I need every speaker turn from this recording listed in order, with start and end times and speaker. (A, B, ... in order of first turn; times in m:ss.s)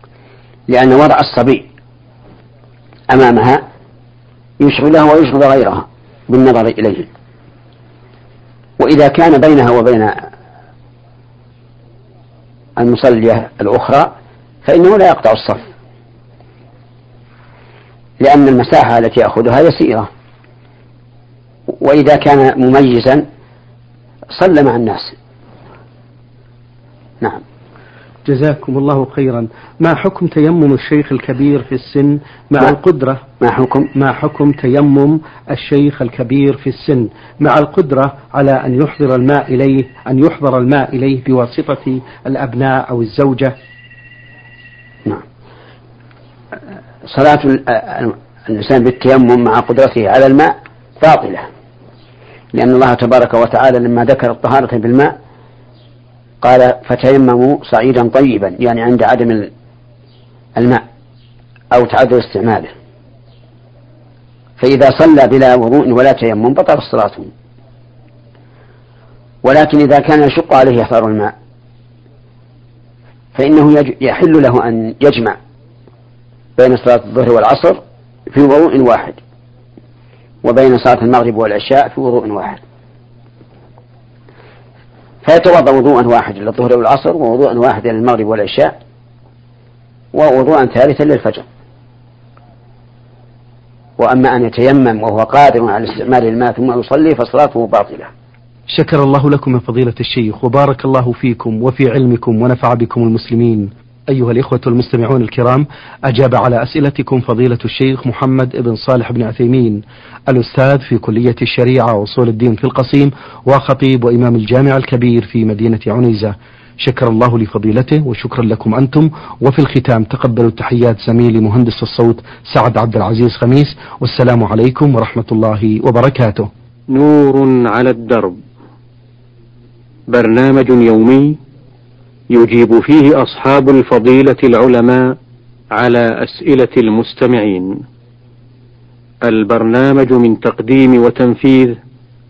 0:00.7-0:01.7 A
0:03.1-0:03.6 A
0:04.6-0:07.1 A
0:08.8-0:10.3 A
0:12.8-0:14.1 A
0:14.6-0:15.7 A
0:18.2-0:20.1 A
0:21.7-0:23.2 A
0:24.3-0:25.2 A
0:28.2-0:33.2 B
0:33.4-0:33.9 A
0:33.9-0:43.6 B
0:47.0-0:51.5 A
0:52.5-0:55.1 A
0:56.4-0:59.5 A
1:00.6-1:00.8 A
1:01.7-1:02.7 A
1:04.6-1:07.3 A
1:09.4-1:11.3 A
1:13.4-1:15.4 A
1:16.6-1:19.2 A
1:20.4-1:22.6 A
1:25.2-1:28.8 A
1:30.1-1:31.4 A
1:34.0-1:38.1 A
1:38.7-2:06.5 B
2:06.9-2:08.4 C
2:10.1-2:11.4 C
2:12.3-2:15.2 C
2:15.8-2:17.8 C
2:19.2-2:21.8 C